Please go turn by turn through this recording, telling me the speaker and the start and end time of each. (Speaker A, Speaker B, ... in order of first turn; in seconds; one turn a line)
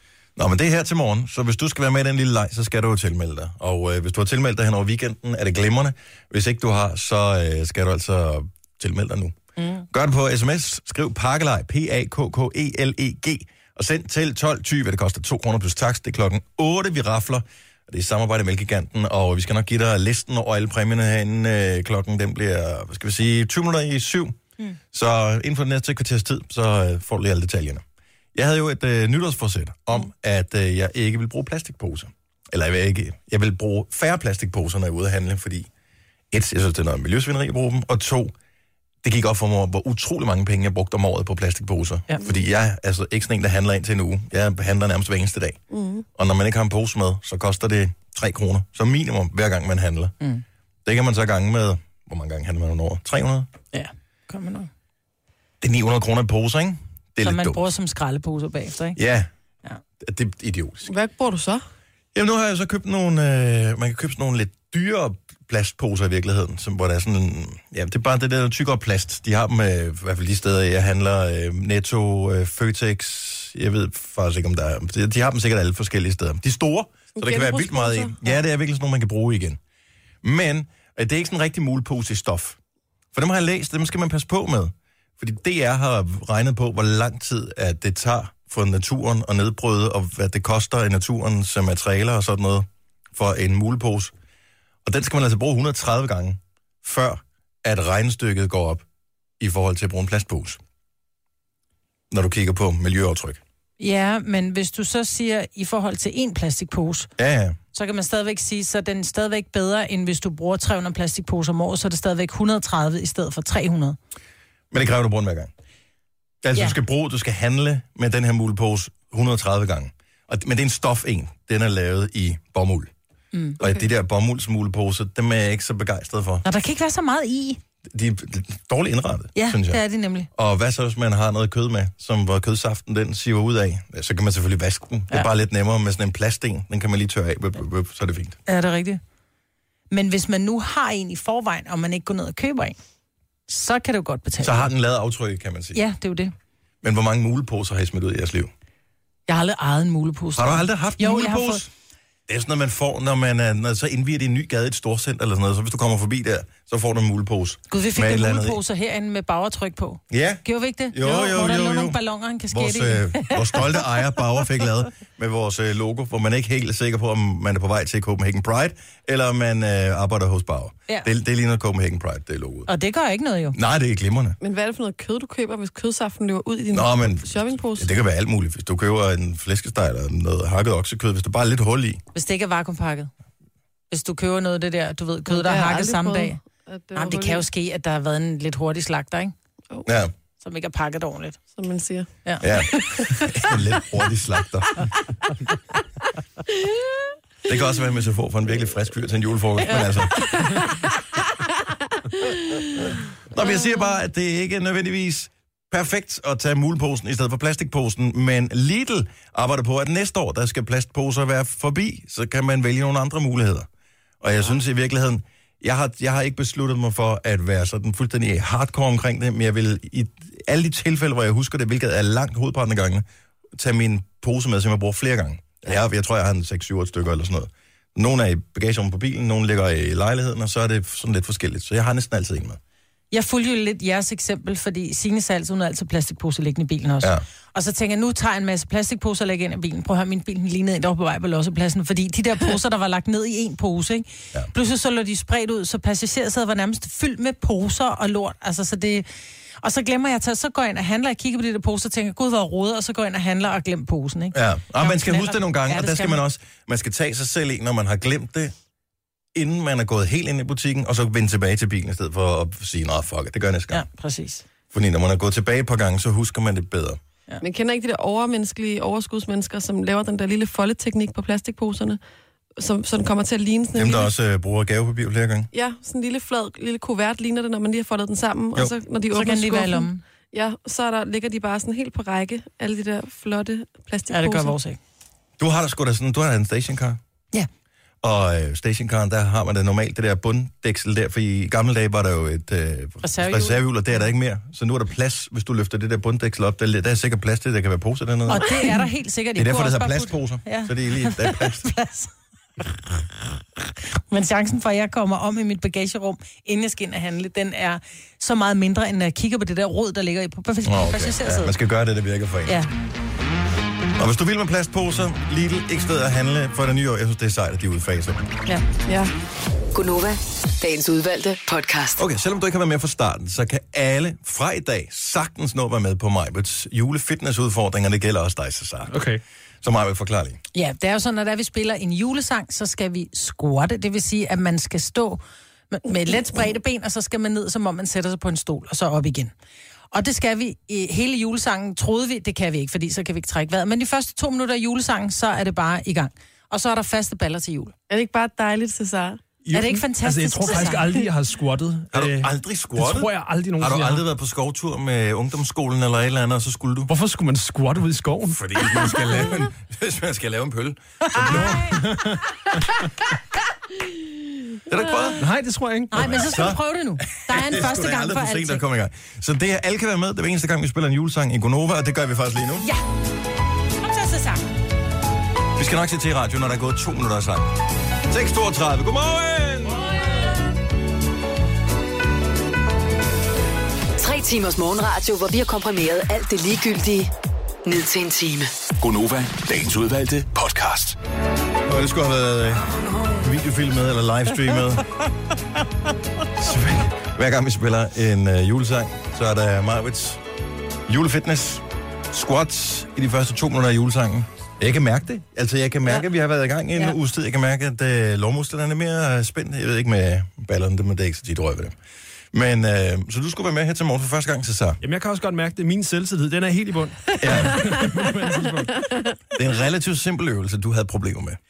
Speaker A: 0.4-9.4
Speaker B: 9.6-9.8
Speaker A: 9.9-24.4
Speaker A: 24.9-27.8
Speaker A: 28.3-35.7
Speaker A: 36.3-38.3
Speaker A: 39.0-45.6
Speaker C: 45.7-46.1
Speaker A: 46.2-50.1
Speaker A: 50.9-53.5
Speaker B: 53.7-54.7
Speaker A: 55.6-57.7
Speaker B: 57.2-59.0
Speaker A: 59.0-59.3
Speaker A: 60.0-60.9
Speaker C: 60.9-61.6
Speaker A: 62.1-79.6
Speaker C: 77.2-78.4
Speaker A: 80.2-82.6
Speaker A: 83.1-94.1
Speaker A: 94.8-98.8
Speaker A: 99.4-100.6
Speaker A: 102.1-103.4
Speaker B: 103.8-107.1
Speaker A: 107.2-107.6
Speaker B: 107.7-114.0
Speaker A: 114.7-115.5
Speaker A: 116.4-122.9
Speaker B: 123.3-123.6
Speaker A: 123.6-126.5
Speaker B: 126.4-127.6
Speaker A: 127.9-129.8
Speaker B: 129.3-130.3
Speaker A: 130.3-138.4
Speaker B: 138.5-139.0
Speaker B: 139.9-142.8
Speaker B: 143.5-144.7
Speaker A: 144.4-145.8
Speaker B: 145.7-146.3
Speaker A: 146.8-148.5
Speaker B: 149.3-151.7
Speaker A: 150.4-151.7
Speaker A: 152.3-158.6
Speaker B: 157.7-163.8
Speaker A: 160.1-172.7
Speaker B: 172.7-173.6
Speaker A: 173.5-174.4
Speaker C: 174.4-177.9
Speaker A: 176.7-182.0
Speaker B: 182.1-183.1
Speaker B: 183.9-186.4
Speaker C: 185.3-187.5
Speaker B: 186.9-189.3
Speaker A: 189.8-190.1
Speaker B: 190.4-191.4
Speaker C: 191.6-193.6
Speaker A: 192.4-194.8
Speaker C: 196.5-196.9
Speaker A: 197.5-200.6
Speaker C: 199.7-202.9
Speaker A: 203.3-213.7
Speaker A: 214.2-223.0
Speaker A: 223.6-232.6
Speaker B: 233.1-249.1
Speaker B: 249.6-256.2
Speaker A: 254.3-258.5
Speaker A: 259.3-263.9
Speaker B: 263.7-264.4
Speaker A: 264.7-267.0
Speaker C: 267.4-272.0
Speaker C: 272.6-274.1
Speaker A: 273.8-275.5
Speaker C: 275.5-284.6
Speaker B: 279.1-280.0
Speaker B: 284.1-284.8
Speaker A: 285.4-287.0
Speaker A: 288.0-301.7
Speaker B: 293.0-293.6
Speaker B: 298.3-302.1
Speaker B: 304.1-311.5
Speaker A: 310.6-312.6
Speaker A: 314.0-318.3
Speaker C: 318.9-319.1
Speaker D: 319.7-322.0
Speaker A: 322.0-329.0
Speaker E: 328.9-329.2
Speaker A: 329.6-330.4
Speaker B: 330.6-339.3
Speaker B: 339.9-347.7
Speaker C: 347.9-349.2
Speaker E: 349.4-354.0
Speaker B: 349.5-350.8
Speaker A: 351.9-356.9
Speaker E: 356.9-358.6
Speaker A: 358.3-362.2
Speaker E: 361.2-361.8
Speaker A: 364.7-365.3
Speaker E: 365.2-366.3
Speaker B: 365.9-368.6
Speaker A: 365.9-372.7
Speaker B: 373.8-374.5
Speaker A: 375.6-379.9
Speaker D: 384.0-387.1
Speaker D: 387.6-388.5
Speaker F: 388.8-391.0
Speaker A: 391.7-394.9
Speaker A: 396.4-400.2
Speaker A: 400.9-411.8
Speaker A: 412.3-414.8
Speaker E: 414.8-418.9
Speaker A: 417.2-417.9
Speaker A: 419.3-421.4